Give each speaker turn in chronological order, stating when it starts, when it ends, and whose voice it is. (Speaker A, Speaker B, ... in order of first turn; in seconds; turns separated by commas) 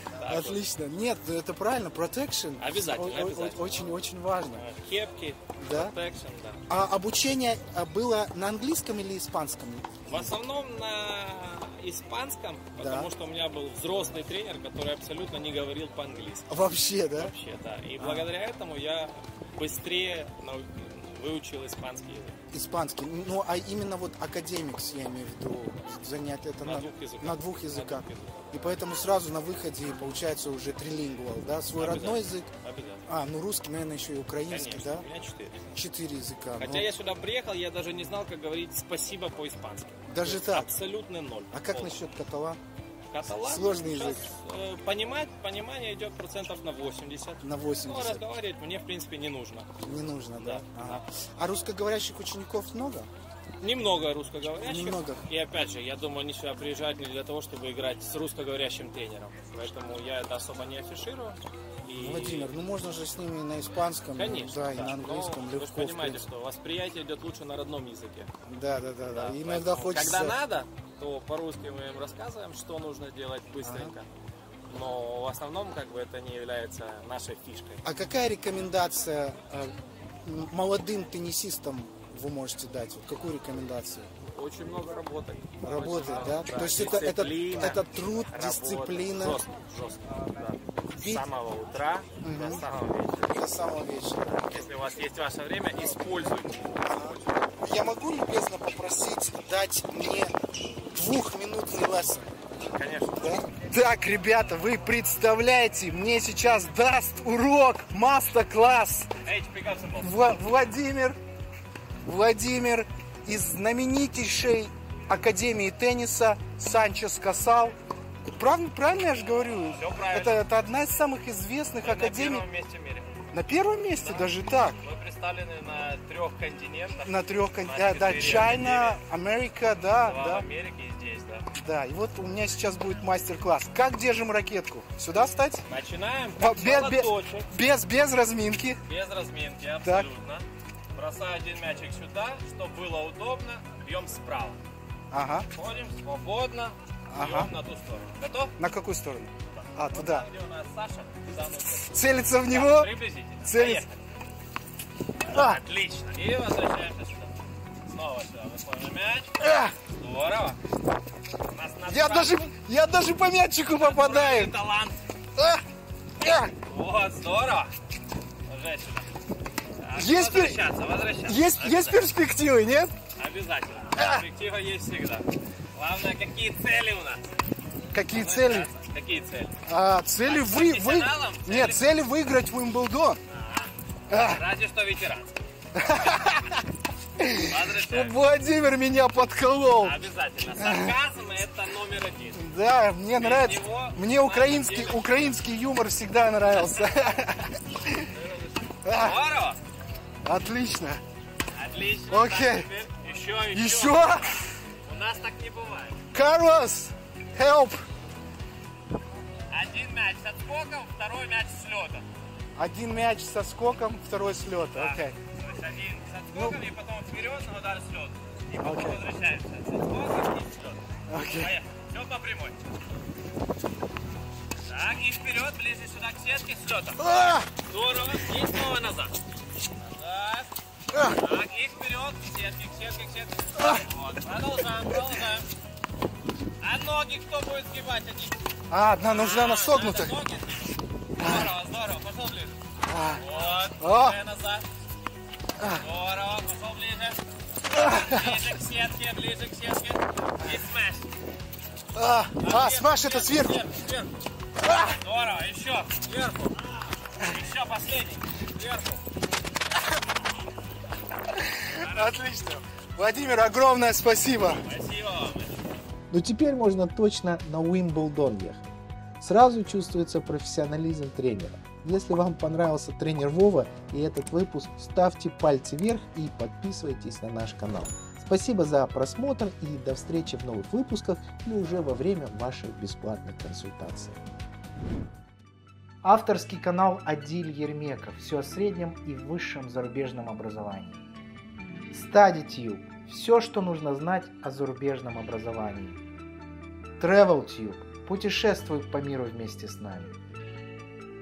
Speaker A: 0.2-0.6, Speaker B: 0.2-4.6, Speaker A: 2.6-3.8, Speaker A: 4.5-6.6, Speaker B: 5.6-5.9, Speaker B: 6.7-10.3, Speaker A: 10.1-16.6, Speaker B: 12.8-13.1, Speaker B: 16.5-17.3, Speaker A: 17.1-22.4, Speaker B: 18.0-18.3, Speaker B: 22.5-32.5, Speaker A: 26.6-28.8, Speaker A: 31.8-33.0, Speaker B: 33.1-35.0, Speaker A: 34.5-35.7, Speaker B: 35.7-36.9, Speaker A: 36.6-42.1, Speaker B: 40.1-40.7, Speaker B: 41.5-42.6, Speaker A: 43.1-49.7, Speaker B: 43.3-44.2, Speaker B: 47.4-48.3, Speaker B: 49.8-53.1, Speaker A: 50.4-51.0, Speaker A: 53.6-62.5, Speaker B: 54.6-55.2, Speaker B: 61.9-66.3, Speaker A: 64.1-68.3, Speaker B: 68.5-70.4, Speaker A: 69.0-74.1, Speaker B: 73.6-73.9, Speaker A: 74.7-77.8, Speaker B: 77.8-84.1, Speaker A: 84.2-93.4, Speaker B: 85.6-89.4, Speaker B: 91.0-91.2, Speaker B: 92.2-92.6, Speaker B: 93.3-94.5, Speaker A: 94.2-96.9, Speaker B: 96.8-100.3, Speaker B: 100.9-102.3, Speaker A: 102.7-103.3, Speaker B: 103.2-109.1, Speaker A: 109.2-110.2, Speaker B: 110.0-111.2, Speaker B: 112.0-117.8, Speaker B: 118.3-122.5, Speaker A: 119.2-120.5, Speaker A: 121.8-123.3, Speaker B: 123.3-124.8, Speaker A: 124.0-129.0, Speaker B: 127.0-130.4, Speaker A: 130.0-131.5, Speaker B: 131.6-135.6, Speaker A: 135.6-137.5, Speaker B: 136.4-138.8, Speaker A: 138.8-144.6, Speaker B: 139.8-140.1, Speaker B: 145.1-145.4, Speaker A: 145.5-148.6, Speaker B: 147.1-147.5, Speaker B: 148.6-150.2, Speaker A: 149.5-154.0, Speaker B: 151.9-152.9, Speaker B: 153.4-153.8, Speaker A: 155.2-160.6, Speaker B: 155.3-155.6, Speaker B: 159.4-159.7, Speaker A: 161.5-162.5, Speaker B: 161.9-164.5, Speaker A: 163.7-165.0, Speaker B: 165.4-165.6, Speaker B: 166.2-166.5, Speaker A: 166.2-167.7, Speaker A: 168.4-169.1, Speaker A: 169.8-172.1, Speaker B: 169.9-170.6, Speaker B: 171.2-173.0, Speaker A: 173.2-177.3, Speaker B: 173.9-174.2, Speaker B: 177.9-178.7, Speaker A: 178.1-179.6, Speaker B: 179.7-183.2, Speaker A: 180.2-181.9, Speaker A: 183.3-185.3, Speaker B: 184.1-184.4, Speaker B: 185.7-186.6, Speaker B: 187.2-190.0, Speaker A: 187.4-188.2, Speaker A: 189.8-192.4, Speaker B: 190.6-191.0, Speaker B: 192.3-198.1, Speaker A: 193.2-195.3, Speaker A: 196.5-197.0, Speaker A: 198.1-199.6, Speaker B: 198.8-199.2, Speaker B: 200.2-201.0, Speaker A: 201.5-206.0, Speaker B: 202.1-202.7, Speaker B: 203.5-204.4, Speaker B: 206.1-207.8, Speaker A: 209.5-212.1, Speaker B: 212.6-215.1, Speaker A: 214.7-222.6, Speaker B: 216.3-216.6, Speaker B: 218.6-219.0, Speaker B: 221.1-221.5, Speaker A: 224.7-229.1, Speaker B: 227.0-227.5, Speaker A: 229.8-230.5, Speaker A: 231.1-235.5, Speaker A: 236.6-238.4, Speaker B: 238.7-240.1, Speaker A: 239.0-242.6, Speaker B: 241.2-241.5, Speaker B: 242.9-243.2, Speaker A: 243.2-244.6, Speaker B: 243.8-244.2, Speaker A: 245.7-247.2, Speaker A: 247.7-251.1, Speaker B: 247.7-248.3, Speaker B: 251.9-253.7, Speaker A: 252.4-254.1, Speaker B: 254.6-254.9, Speaker A: 254.8-259.0, Speaker B: 261.3-264.6, Speaker A: 261.7-262.1, Speaker A: 264.6-265.8, Speaker C: 266.1-268.6, Speaker C: 269.2-284.2, Speaker C: 286.0-291.0, Speaker C: 291.9-296.0, Speaker C: 297.0-300.2